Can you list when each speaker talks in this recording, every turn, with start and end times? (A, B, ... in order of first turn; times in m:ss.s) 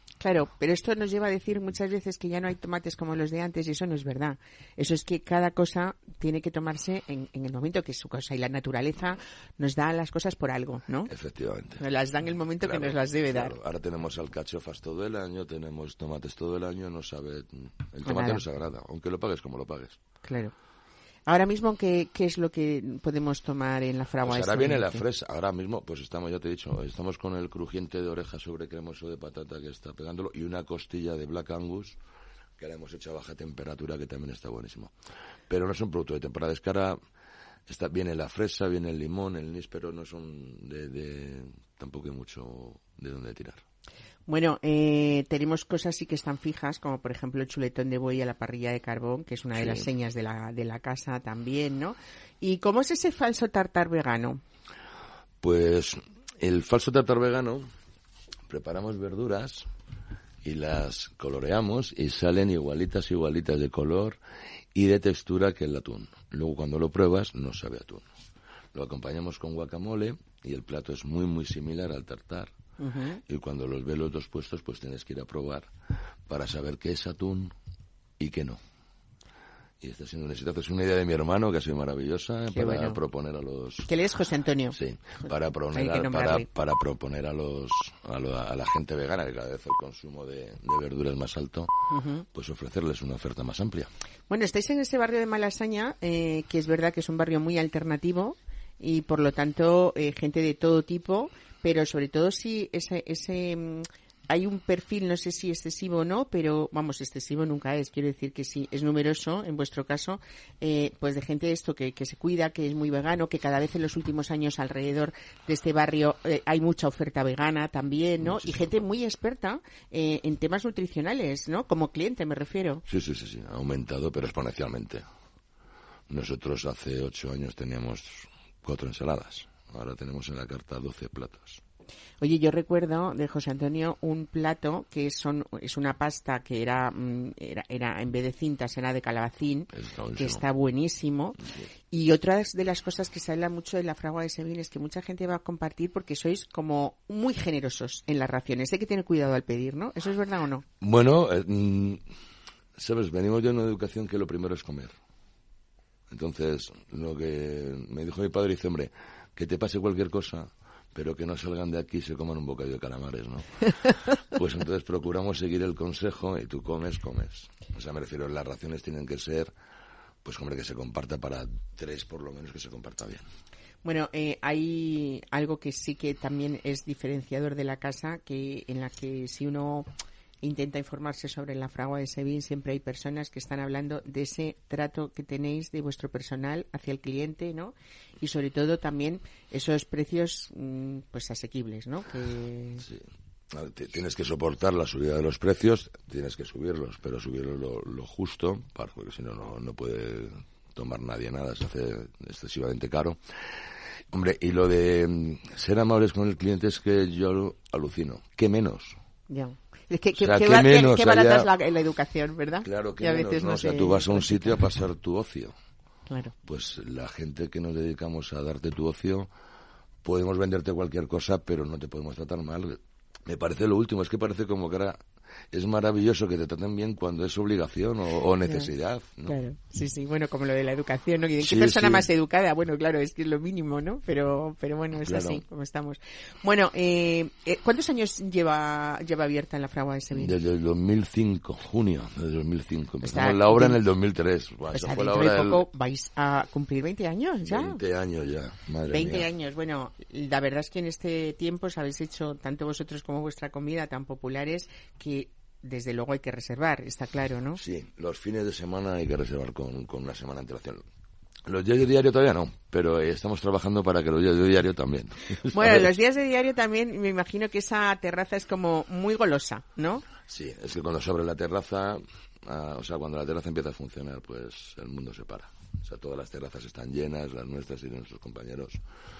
0:00.2-0:11.1 A
0:11.1-0:11.8 B
0:11.8-0:13.5 A
0:12.6-0:20.0 B
0:18.0-0:18.4 A
0:20.2-0:20.5 A
0:21.3-0:25.0 A
0:24.2-0:32.0 B
0:32.6-0:34.9 B
0:35.5-0:37.0 B
0:37.7-0:43.6 B
0:44.3-0:54.4 A
0:49.6-0:49.9 B
0:55.4-0:57.7 B
0:58.5-0:59.7 B
1:00.4-1:04.2 B
1:04.7-1:08.1 B
1:08.7-1:12.5 B
1:12.8-1:13.2 A
1:13.2-1:15.7 B
1:16.3-1:17.5 B
1:18.2-1:18.6 B
1:19.8-1:23.9 B
1:22.5-1:23.0 A
1:23.9-1:26.5 A
1:24.7-1:31.7 B
1:31.9-1:32.2 A
1:32.3-1:33.9 B
1:34.3-2:02.8 A
1:58.2-1:58.7 B
2:02.9-2:05.0 B
2:06.1-2:11.6 B
2:12.2-2:21.4 A
2:19.7-2:20.4 B
2:21.4-2:21.7 B
2:21.9-2:30.6 A
2:30.8-2:32.0 B
2:32.8-2:34.9 B
2:36.1-2:49.5 B
2:50.2-2:53.2 B
2:53.8-2:59.9 A
3:00.4-3:12.8 A
3:12.8-3:23.2 B
3:24.1-3:29.0 B
3:29.3-3:34.3 A
3:30.2-3:31.5 B
3:32.6-3:35.5 B
3:36.4-3:39.3 B
3:40.0-3:45.0 B
3:45.5-3:49.3 B
3:48.4-3:48.7 A
3:49.3-4:00.3 A
3:51.4-3:52.1 B
3:55.0-3:55.4 B
4:00.2-4:05.6 B
4:03.0-4:03.8 A
4:04.7-4:07.8 A
4:07.5-4:09.3 B
4:08.9-4:17.6 A
4:17.6-4:20.8 B
4:21.5-4:25.9 B
4:25.5-4:30.0 A
4:30.3-4:38.8 B